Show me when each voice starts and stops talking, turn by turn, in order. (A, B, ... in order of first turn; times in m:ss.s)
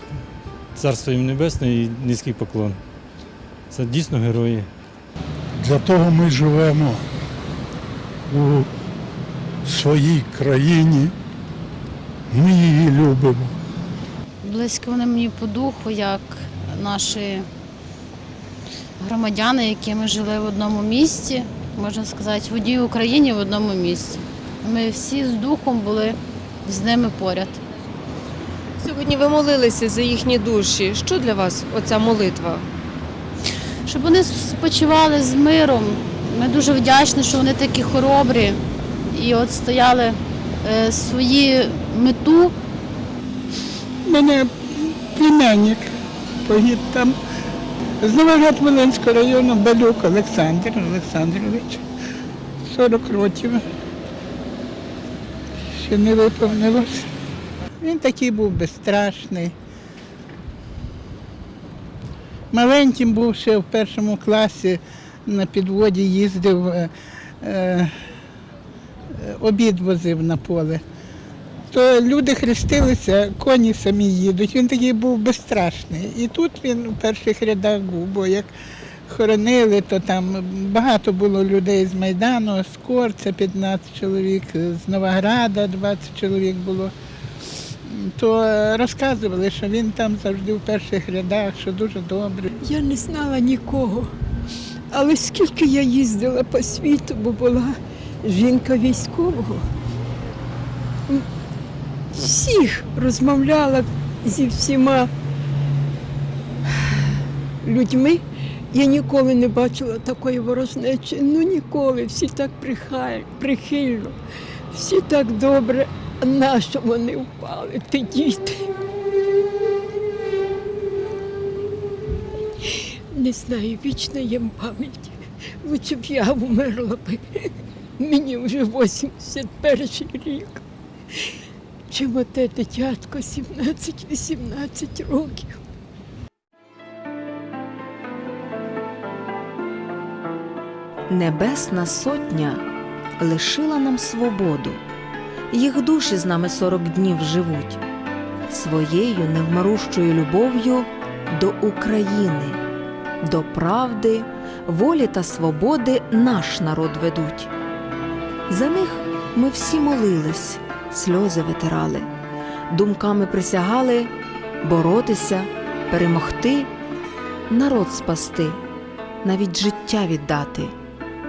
0:00.8-0:02.8 A
0:03.7-0:04.7 A
0:05.6-0:07.0 B
0:08.3-0:08.7 B
0:09.6-0:11.1 B
0:12.3-0:13.6 B
0:14.4-0:17.5 C
0:19.0-0:27.6 C
0:28.8-0:32.7 D
0:33.9-0:42.5 C
0:44.1-0:45.9 E
0:46.4-0:47.2 E
0:48.0-0:51.8 E
0:52.7-0:53.6 E
0:55.8-0:57.0 E
0:57.8-0:59.5 E
1:02.5-1:06.9 E
1:07.4-1:07.9 E
1:09.2-1:10.8 E
1:11.7-1:18.5 E
1:19.1-1:26.9 E
1:27.8-1:32.5 E
1:32.6-1:34.1 F
1:34.9-1:39.7 F
1:42.1-1:45.1 F
1:46.7-1:54.2 F
1:54.7-1:58.7 F
2:02.6-2:11.4 F
2:11.9-2:15.6 F
2:21.1-2:22.7 D
2:23.2-2:24.8 D
2:25.5-2:27.8 D
2:28.5-2:32.6 D
2:33.2-2:37.5 D
2:38.5-2:42.1 D
2:42.7-2:46.7 D
2:47.5-2:48.6 D
2:49.2-2:50.7 D